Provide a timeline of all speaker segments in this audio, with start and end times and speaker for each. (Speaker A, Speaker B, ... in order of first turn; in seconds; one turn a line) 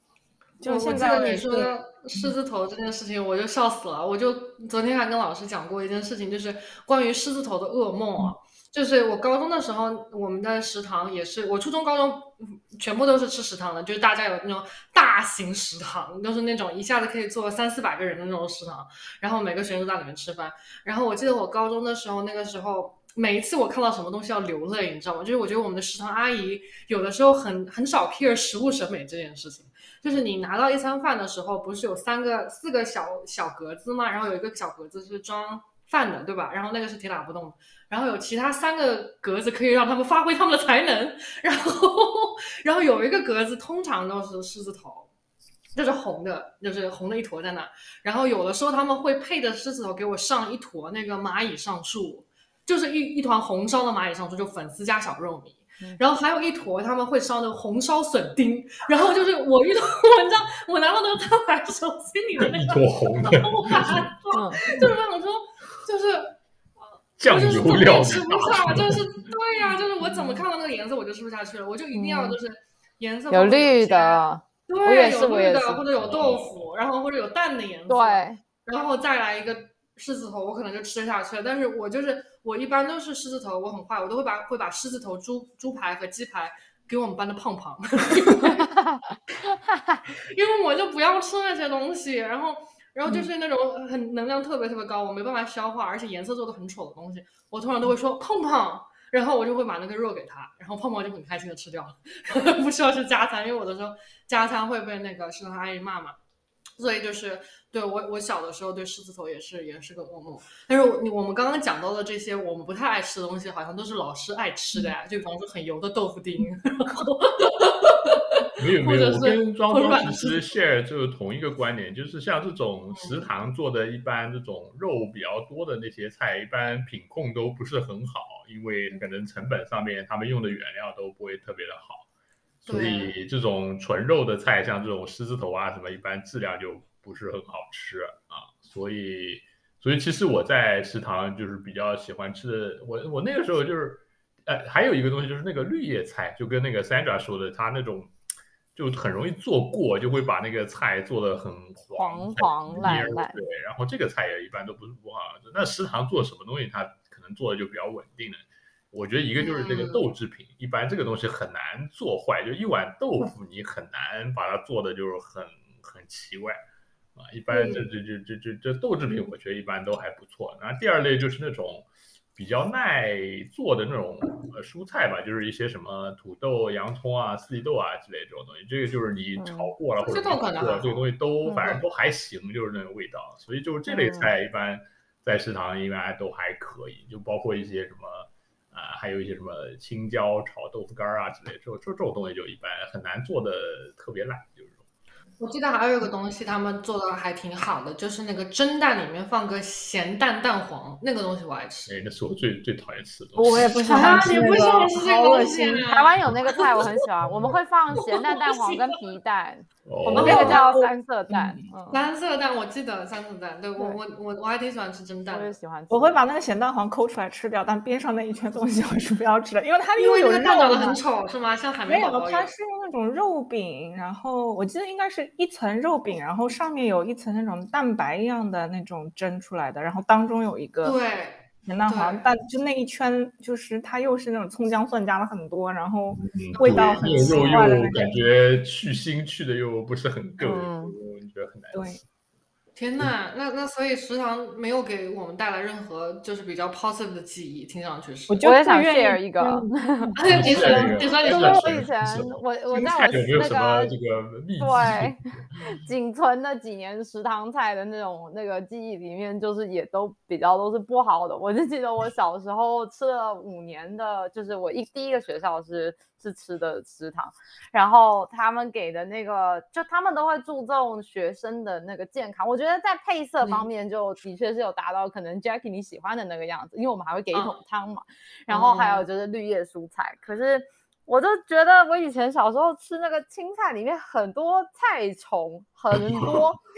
Speaker A: 0.6-2.3
Speaker B: 0.6-45.1
Speaker C: 0.8-1.3
Speaker B: 45.7-66.3
Speaker D: 62.5-64.1
Speaker C: 64.3-64.6
Speaker D: 67.2-69.1
Speaker B: 67.2-88.7
Speaker C: 71.9-72.4
Speaker C: 73.3-75.8
Speaker D: 76.0-76.6
Speaker C: 77.9-78.4
Speaker C: 88.7-89.0
Speaker C: 89.7-90.0
Speaker B: 90.2-106.2
Speaker B: 106.8-120.4
Speaker D: 118.6-132.1
Speaker B: 122.9-123.2
Speaker B: 132.7-133.1
Speaker D: 132.7-148.1
Speaker D: 148.7-166.6
Speaker C: 152.0-153.4
Speaker B: 159.4-160.0
Speaker D: 167.2-194.8
Speaker C: 167.5-167.8
Speaker C: 179.4-179.7
Speaker B: 180.0-181.0
Speaker C: 181.5-181.8
Speaker C: 183.9-184.3
Speaker B: 195.4-201.9
Speaker D: 201.9-203.9
Speaker A: 203.3-205.8
Speaker C: 203.8-212.0
Speaker B: 203.9-206.8
Speaker D: 206.8-208.0
Speaker B: 208.1-209.0
Speaker D: 209.8-210.7
Speaker A: 210.1-211.7
Speaker B: 211.9-215.5
Speaker C: 215.3-216.2
Speaker A: 215.9-221.0
Speaker B: 220.0-222.5
Speaker A: 221.9-231.0
Speaker B: 230.8-232.2
Speaker A: 231.7-238.1
Speaker D: 236.1-242.0
Speaker B: 236.6-238.1
Speaker C: 240.4-240.9
Speaker A: 241.7-242.0
Speaker B: 242.8-248.4
Speaker A: 248.3-250.9
Speaker C: 248.4-253.9
Speaker B: 250.2-251.8
Speaker D: 250.2-255.4
Speaker C: 254.6-286.6
Speaker B: 278.5-279.1